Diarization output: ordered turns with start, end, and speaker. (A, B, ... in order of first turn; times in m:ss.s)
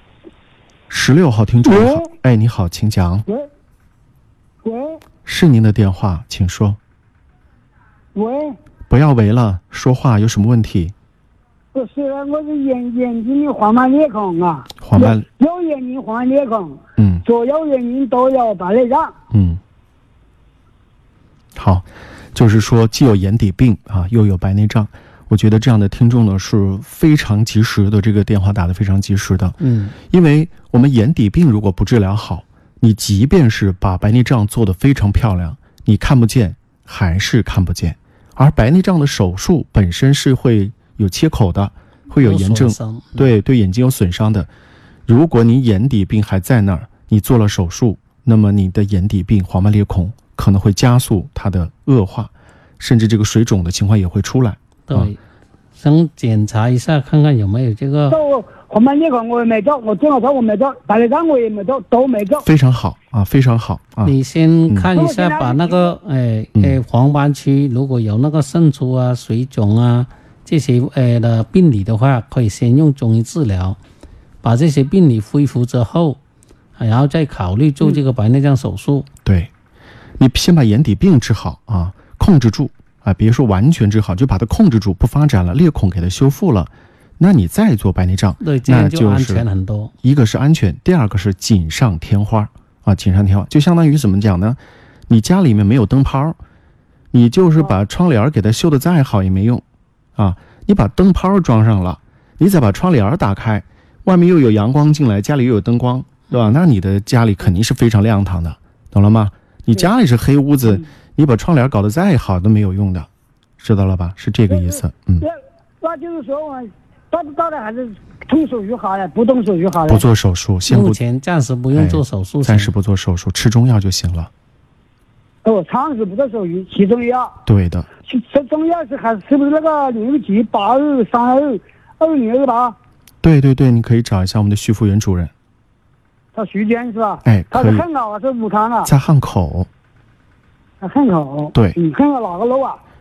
0:00.9-0:03.3 A
0:01.7-0:02.1 B
0:04.6-0:05.0 B
0:05.3-0:06.8 A
0:08.1-0:08.6 B
0:08.9-0:10.9 A
0:11.7-0:19.2 B
0:14.8-0:15.2 A
0:17.0-0:17.2 A
0:19.3-0:19.6 A
0:21.6-0:44.5 A
0:29.6-0:30.0 C
0:42.2-0:43.3 C
0:45.1-0:55.1 A
0:54.9-0:55.2 C
0:55.8-0:58.2 C
0:58.1-1:02.5 B
1:02.4-1:04.2 A
1:04.0-1:13.8 C
1:04.9-1:06.0 B
1:06.6-1:06.8 A
1:14.4-1:16.2 C
1:16.8-1:19.1 C
1:19.2-1:19.5 A
1:20.2-1:29.4 A
1:28.4-1:29.9 C
1:30.0-1:34.6 A
1:35.1-1:36.4 A
1:37.1-1:39.6 A
1:40.2-1:53.1 A
1:53.6-1:55.3 A
1:54.5-2:00.1 B
1:59.9-2:01.0 A
2:00.7-2:02.7 C
2:01.7-2:04.3 A
2:05.4-2:07.3 B
2:07.5-2:07.9 A
2:08.1-2:12.8 B
2:13.2-2:15.3 A
2:16.3-2:18.9 B
2:17.2-2:17.8 A
2:18.8-2:19.7 A
2:20.8-2:22.8 B